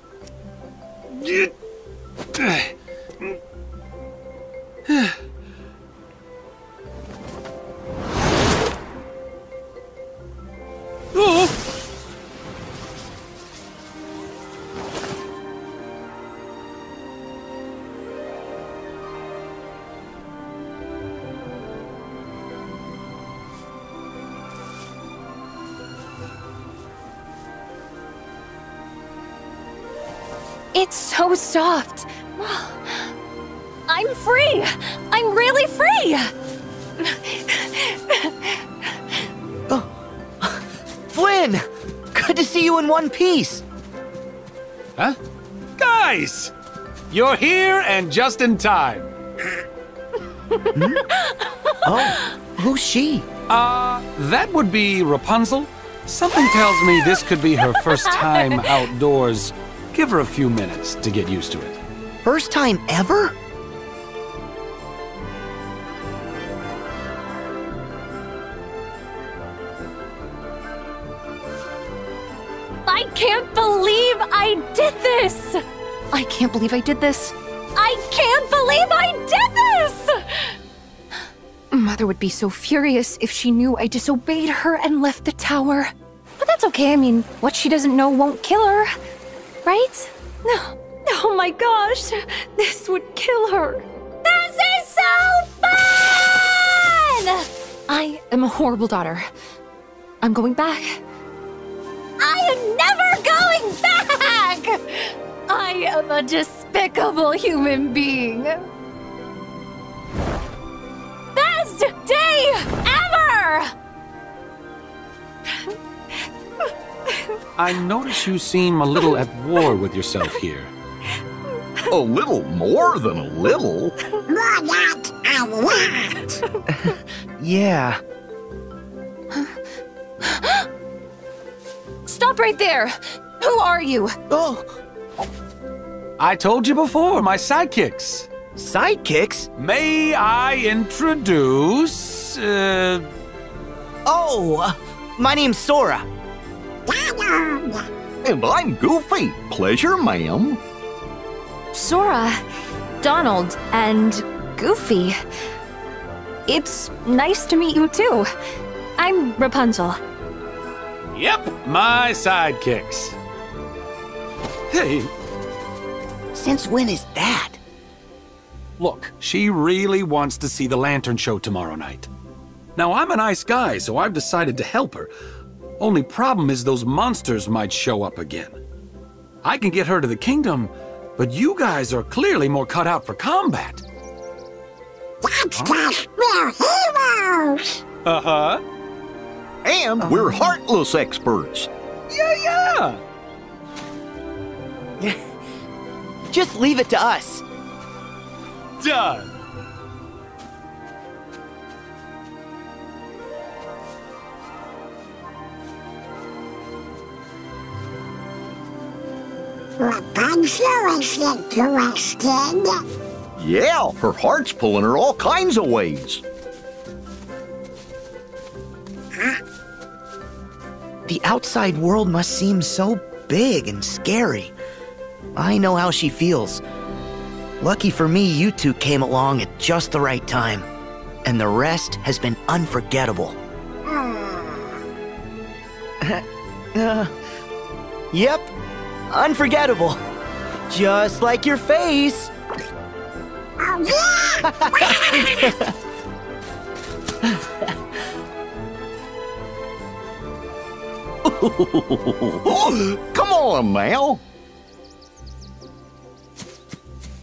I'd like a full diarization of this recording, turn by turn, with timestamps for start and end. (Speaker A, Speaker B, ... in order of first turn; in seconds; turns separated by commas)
Speaker A: 1.1-1.5, Speaker A: 2.4-2.7, Speaker A: 4.9-5.1, Speaker A: 11.2-11.5, Speaker B: 30.7-33.1, Speaker B: 33.9-36.3, Speaker B: 37.0-38.6, Speaker C: 39.7-43.6, Speaker A: 45.8-46.5, Speaker A: 47.1-49.1, Speaker B: 50.6-52.3, Speaker C: 50.8-51.0, Speaker C: 51.9-53.3, Speaker A: 53.5-61.8, Speaker C: 62.2-63.4, Speaker B: 72.9-80.5, Speaker B: 81.7-88.9, Speaker B: 89.7-99.3, Speaker B: 100.2-101.0, Speaker B: 102.2-108.6, Speaker B: 111.3-113.7, Speaker A: 117.6-120.7, Speaker D: 121.9-124.0, Speaker E: 124.3-126.4, Speaker C: 126.8-128.0, Speaker B: 130.2-130.7, Speaker B: 132.1-134.2, Speaker C: 134.3-134.8, Speaker A: 136.2-138.3, Speaker C: 138.6-139.5, Speaker A: 139.6-143.1, Speaker C: 144.1-146.1, Speaker E: 146.9-147.9, Speaker D: 148.2-150.6, Speaker B: 151.7-152.4, Speaker B: 153.0-155.2, Speaker B: 156.5-158.3, Speaker B: 159.0-160.0, Speaker A: 161.2-163.2, Speaker A: 164.7-165.1, Speaker C: 166.3-167.6, Speaker A: 168.8-172.1, Speaker A: 172.8-175.1, Speaker A: 175.8-178.6, Speaker A: 179.4-183.8, Speaker E: 185.2-187.8, Speaker A: 188.1-188.6, Speaker D: 189.7-191.7, Speaker C: 190.0-190.5, Speaker A: 192.1-193.0, Speaker C: 196.3-197.4, Speaker A: 198.8-199.3, Speaker E: 209.8-212.8, Speaker D: 213.4-216.2, Speaker C: 221.1-224.5, Speaker C: 225.3-226.6, Speaker C: 227.6-230.7, Speaker C: 231.2-233.4, Speaker E: 233.9-234.6, Speaker C: 236.0-237.1, Speaker C: 238.1-238.5, Speaker C: 239.1-240.0, Speaker C: 240.7-242.3, Speaker E: 243.6-245.5, Speaker C: 244.4-245.7, Speaker D: 251.2-254.2